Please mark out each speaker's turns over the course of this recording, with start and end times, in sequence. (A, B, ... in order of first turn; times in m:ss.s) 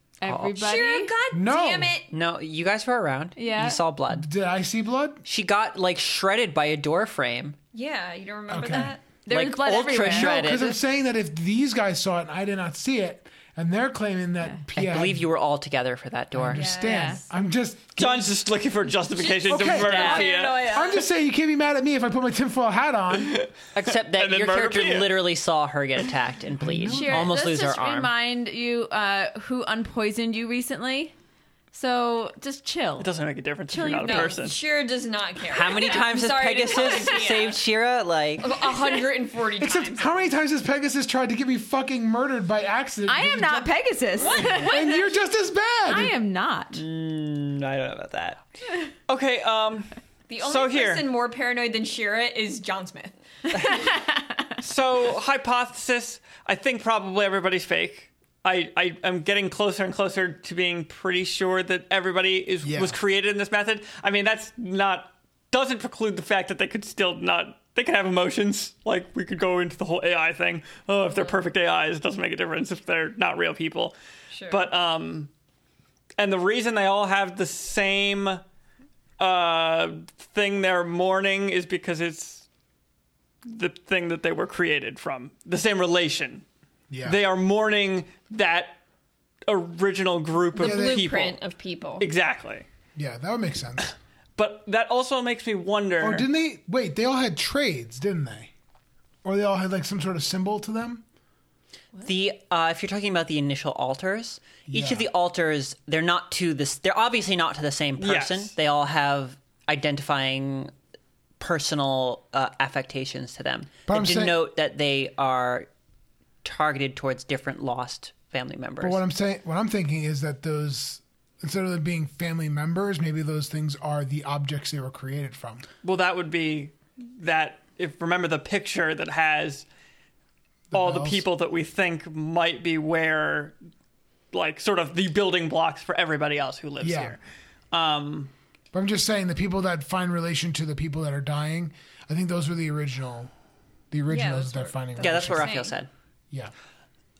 0:00.2-0:01.1 A
0:00.3-0:00.6 B
0:00.6-0:02.1 C
0:01.3-0:02.0 D
0:02.1-0:04.3 B
0:03.4-0:03.8 A
0:04.1-0:05.2 D
0:05.2-0:07.6 B
0:07.7-0:09.0 C
0:08.5-0:09.0 D
0:09.2-0:10.4 A
0:09.3-0:10.8 B
0:10.1-0:15.3 D
0:14.8-0:16.7 B
0:16.3-0:18.4 D
0:16.5-0:17.2 C
0:16.8-0:17.2 A
0:18.0-0:20.6 E
0:19.2-0:21.1 C
0:19.5-0:23.4 D
0:19.8-0:20.3 B
0:23.1-0:25.2 E
0:23.8-0:28.1 B
0:26.6-0:27.3 D
0:26.9-0:31.1 A
0:31.7-0:33.1 A
0:33.0-0:34.6 E
0:33.7-0:34.4 A
0:34.0-0:37.6 C
0:35.5-0:38.7 B
0:36.8-0:37.1 A
0:38.4-0:40.2 C
0:39.6-0:46.2 D
0:43.1-0:44.8 A
0:44.2-0:45.2 C
0:45.9-0:46.8 A
0:46.7-0:48.4 B
0:49.1-0:51.1 E
0:50.3-0:53.7 C
0:53.6-0:54.5 A
0:54.6-1:14.0 E
1:02.6-1:03.0 D
1:14.3-1:14.6 C
1:14.5-1:15.3 E
1:16.2-1:18.4 E
1:19.2-1:22.5 E
1:23.4-1:26.4 E
1:26.9-1:27.2 D
1:27.0-1:28.8 E
1:29.5-1:31.4 E
1:30.5-1:32.1 C
1:30.6-1:31.1 D
1:32.0-1:32.7 E
1:33.0-1:33.9 D
1:34.4-1:36.3 E
1:36.0-1:38.5 D
1:39.2-1:41.0 D
1:42.0-1:50.7 B
1:44.7-1:45.1 D
1:48.0-1:48.5 E
1:51.4-1:55.7 B
1:53.9-1:54.4 D
1:56.4-1:59.0 B
1:58.8-2:05.7 D
2:05.8-2:09.7 E
2:10.7-2:11.3 D
2:10.7-2:13.6 E
2:14.3-2:17.2 E
2:16.8-2:17.2 D
2:17.7-2:18.3 E
2:18.7-2:23.3 D
2:23.9-2:25.6 D
2:24.1-2:25.8 C
2:25.0-2:25.9 B